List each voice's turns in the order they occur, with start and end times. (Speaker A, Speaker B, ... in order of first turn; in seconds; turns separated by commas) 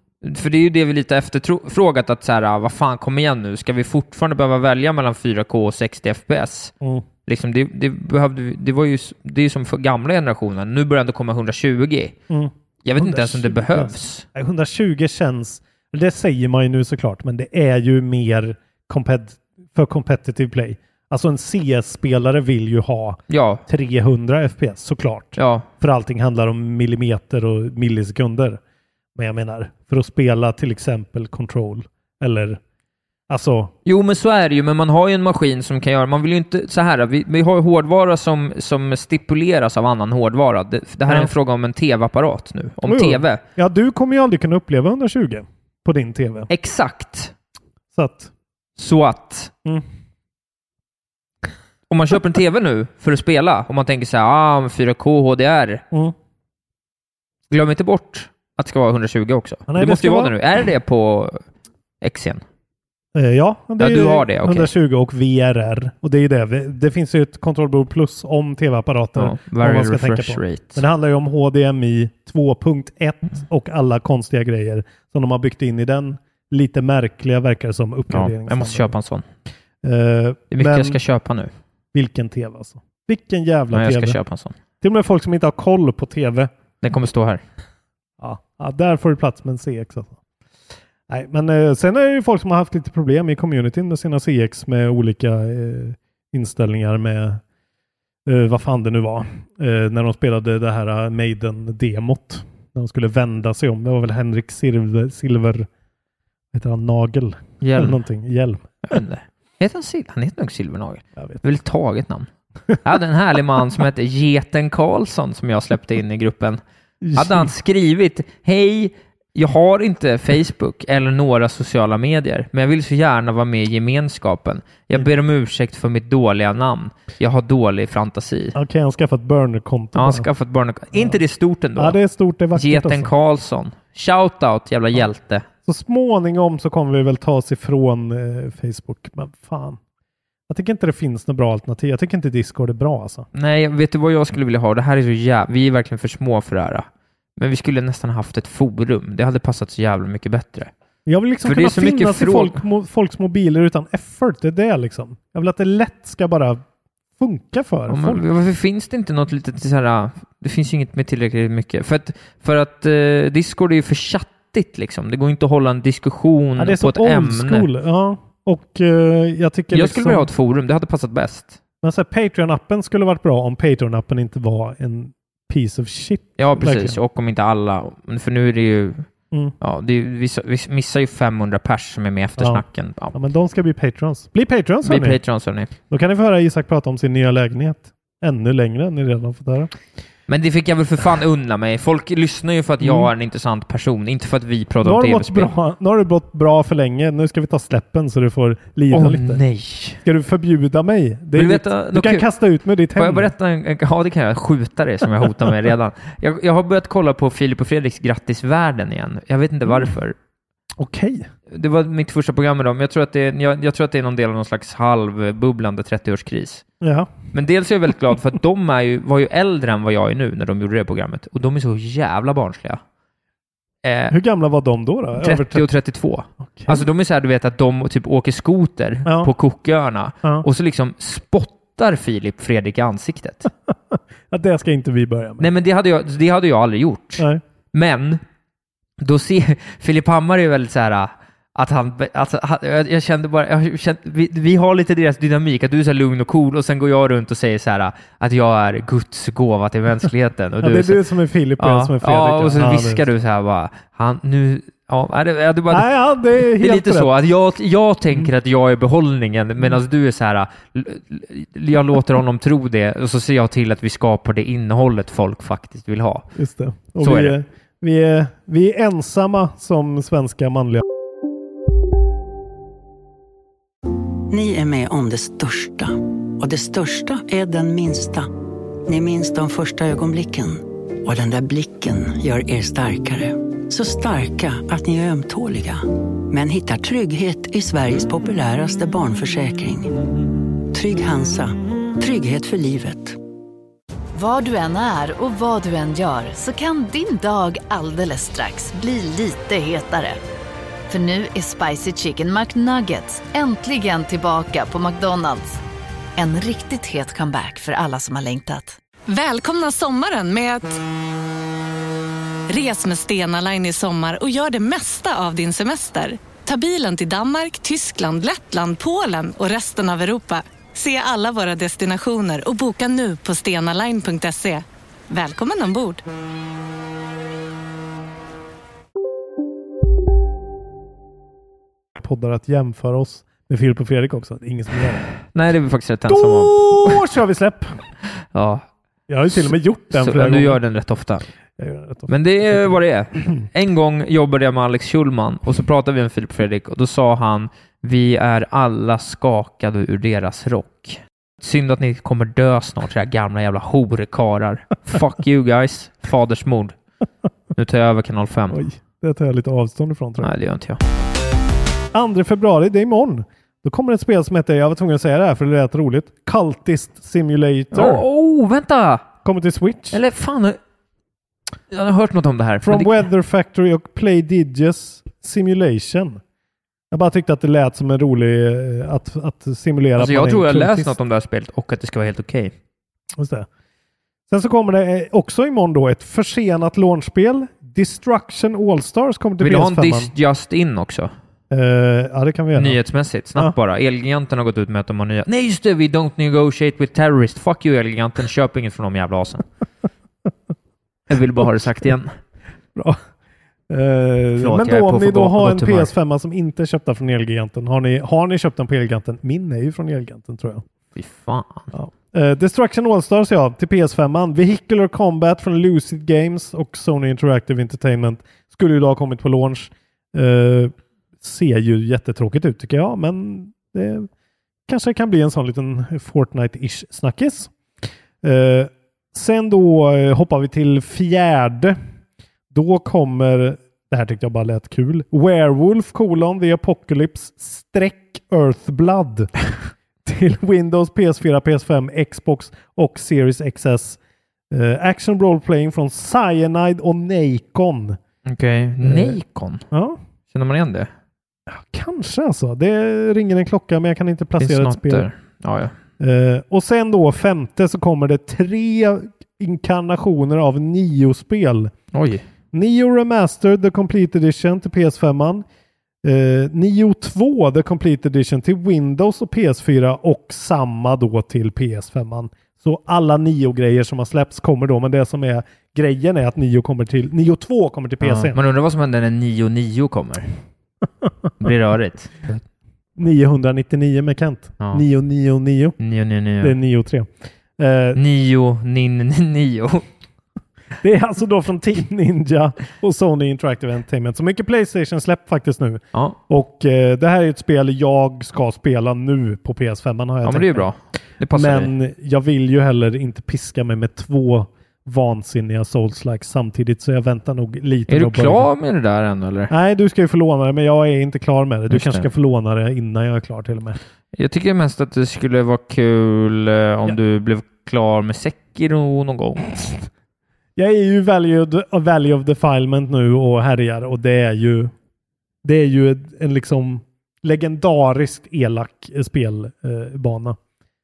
Speaker A: 0.2-6.7, Speaker B: 6.8-7.0, Speaker A: 7.2-12.2, Speaker B: 12.3-28.6, Speaker A: 12.8-14.2, Speaker A: 23.3-23.6, Speaker A: 25.4-25.7, Speaker B: 29.1-32.6, Speaker B: 33.3-33.7, Speaker A: 33.8-43.4, Speaker B: 42.8-46.5, Speaker A: 46.5-47.3, Speaker B: 47.9-48.3, Speaker A: 48.8-49.5, Speaker A: 51.9-55.8, Speaker A: 57.5-61.4, Speaker B: 59.7-60.3, Speaker A: 62.0-62.4, Speaker B: 63.1-78.9, Speaker A: 63.8-64.7, Speaker A: 69.2-70.8, Speaker A: 78.1-79.2, Speaker B: 79.8-81.0, Speaker A: 80.5-81.5, Speaker B: 81.9-84.2, Speaker A: 83.7-84.5, Speaker B: 84.8-86.5, Speaker A: 86.8-87.4, Speaker B: 88.2-90.2, Speaker B: 91.1-97.4, Speaker B: 98.2-105.7, Speaker B: 106.5-108.8, Speaker A: 107.6-108.0, Speaker A: 108.8-112.3, Speaker B: 111.2-111.4, Speaker A: 112.8-116.6, Speaker B: 117.0-117.5, Speaker A: 117.1-128.6, Speaker B: 128.5-130.3, Speaker A: 129.9-132.0, Speaker B: 130.9-131.2, Speaker B: 131.8-133.1, Speaker A: 132.5-135.4, Speaker B: 135.7-139.8, Speaker B: 140.5-143.3, Speaker A: 143.3-150.7, Speaker B: 151.1-156.6, Speaker A: 151.4-152.6, Speaker B: 157.2-158.2, Speaker A: 157.9-167.7, Speaker B: 166.6-170.3, Speaker A: 169.7-171.6, Speaker B: 171.8-176.9, Speaker A: 176.4-179.1, Speaker A: 179.6-183.1, Speaker B: 182.4-185.2, Speaker A: 184.8-185.7, Speaker B: 185.9-189.7, Speaker A: 190.3-195.5, Speaker B: 192.8-193.1, Speaker B: 194.8-199.4, Speaker A: 198.9-200.0, Speaker B: 200.0-203.3, Speaker A: 201.3-202.3, Speaker A: 202.9-210.2, Speaker B: 210.8-211.3, Speaker A: 211.5-216.6, Speaker B: 216.8-217.1, Speaker A: 217.3-222.8, Speaker A: 223.8-224.2, Speaker B: 224.1-225.7, Speaker A: 225.2-233.5, Speaker B: 226.4-226.8, Speaker B: 229.0-229.3, Speaker B: 233.7-235.5, Speaker A: 235.4-238.2, Speaker A: 239.0-251.1, Speaker B: 250.6-253.0, Speaker A: 251.6-266.3, Speaker B: 255.7-257.1, Speaker B: 266.4-270.8, Speaker A: 267.0-267.4, Speaker C: 274.3-278.3, Speaker C: 278.9-289.9, Speaker C: 290.7-293.2, Speaker D: 294.1-300.2, Speaker D: 300.9-305.6, Speaker D: 306.2-308.8, Speaker E: 309.1-310.8, Speaker E: 312.5-326.0, Speaker B: 331.9-335.1, Speaker A: 335.3-337.0, Speaker B: 336.1-337.8, Speaker A: 338.3-338.6, Speaker B: 339.1-340.6, Speaker A: 339.3-341.2, Speaker B: 341.6-343.4, Speaker A: 342.1-356.8, Speaker A: 357.5-358.6, Speaker B: 358.5-360.3, Speaker A: 360.2-360.8, Speaker B: 361.9-368.0, Speaker A: 367.7-369.1, Speaker B: 369.2-370.0, Speaker A: 369.9-370.6, Speaker A: 371.7-373.0, Speaker B: 372.6-376.2, Speaker B: 376.9-380.9, Speaker A: 380.0-382.5, Speaker B: 383.1-383.5, Speaker B: 384.3-390.1, Speaker A: 389.4-391.1, Speaker B: 391.5-392.8, Speaker A: 392.5-399.4, Speaker A: 401.1-402.2, Speaker B: 403.7-410.6, Speaker A: 404.4-405.9, Speaker A: 410.9-411.7, Speaker B: 411.7-424.1, Speaker B: 424.7-427.5, Speaker B: 428.2-431.8, Speaker B: 432.5-439.3, Speaker B: 440.0-444.0, Speaker B: 444.5-448.0, Speaker A: 448.2-449.6, Speaker B: 448.8-449.2, Speaker B: 449.7-450.0, Speaker A: 450.3-450.9, Speaker B: 451.5-455.1, Speaker A: 454.4-455.7, Speaker B: 456.0-461.7, Speaker A: 461.9-462.2, Speaker B: 462.5-465.4, Speaker B: 466.0-478.4, Speaker A: 478.0-480.3, Speaker A: 481.4-482.4, Speaker B: 482.9-485.8, Speaker A: 485.8-486.5, Speaker B: 486.4-488.0, Speaker A: 487.9-489.9, Speaker B: 490.8-500.7, Speaker A: 500.2-501.7, Speaker B: 501.3-508.5, Speaker A: 507.9-509.5, Speaker B: 509.5-513.8, Speaker A: 511.7-512.1, Speaker A: 514.1-519.8, Speaker B: 520.5-524.7, Speaker B: 525.4-530.4